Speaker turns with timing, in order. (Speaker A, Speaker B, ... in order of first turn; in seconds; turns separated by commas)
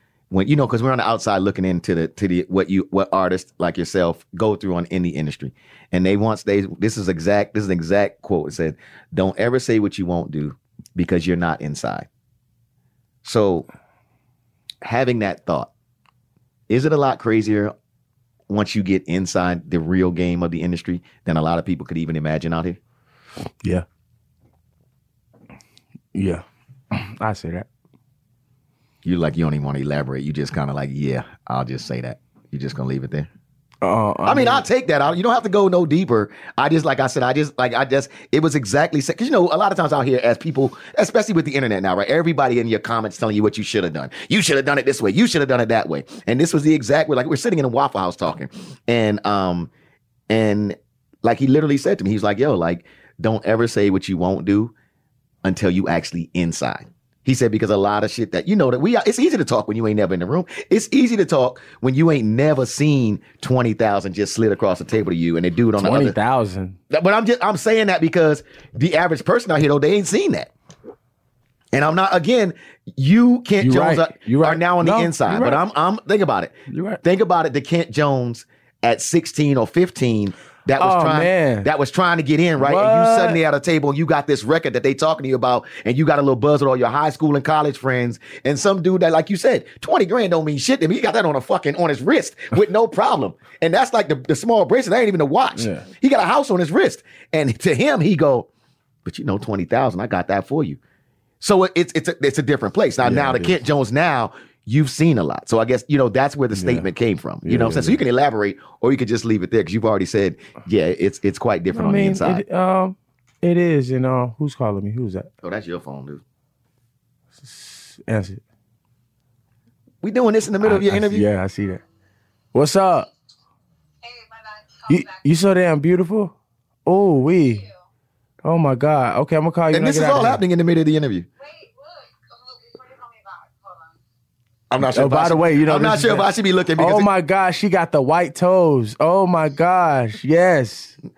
Speaker A: 0.3-12.1, Speaker A: 13.2-13.7, Speaker A: 14.8-15.7, Speaker A: 16.7-17.7, Speaker A: 18.5-22.8, Speaker B: 26.1-27.7, Speaker A: 29.0-33.3, Speaker B: 33.8-34.7, Speaker A: 34.3-49.7, Speaker A: 50.3-54.7, Speaker A: 55.4-66.2, Speaker B: 65.8-66.8, Speaker A: 66.9-70.5, Speaker A: 71.7-98.5, Speaker B: 73.6-75.6, Speaker B: 76.7-77.0, Speaker B: 80.8-81.7, Speaker B: 82.6-83.4, Speaker B: 95.6-95.9, Speaker A: 99.0-100.8, Speaker A: 101.4-112.4, Speaker B: 103.0-103.6, Speaker B: 106.5-106.9, Speaker B: 107.4-108.0, Speaker B: 111.7-115.3, Speaker A: 115.4-116.2, Speaker B: 117.4-118.4, Speaker A: 120.0-121.3, Speaker B: 120.6-121.8, Speaker B: 122.5-123.1, Speaker C: 124.0-125.1, Speaker B: 124.9-126.3, Speaker B: 126.9-127.7, Speaker B: 128.4-130.4, Speaker A: 129.7-131.3, Speaker C: 131.4-134.0, Speaker A: 134.7-137.1, Speaker B: 134.9-141.0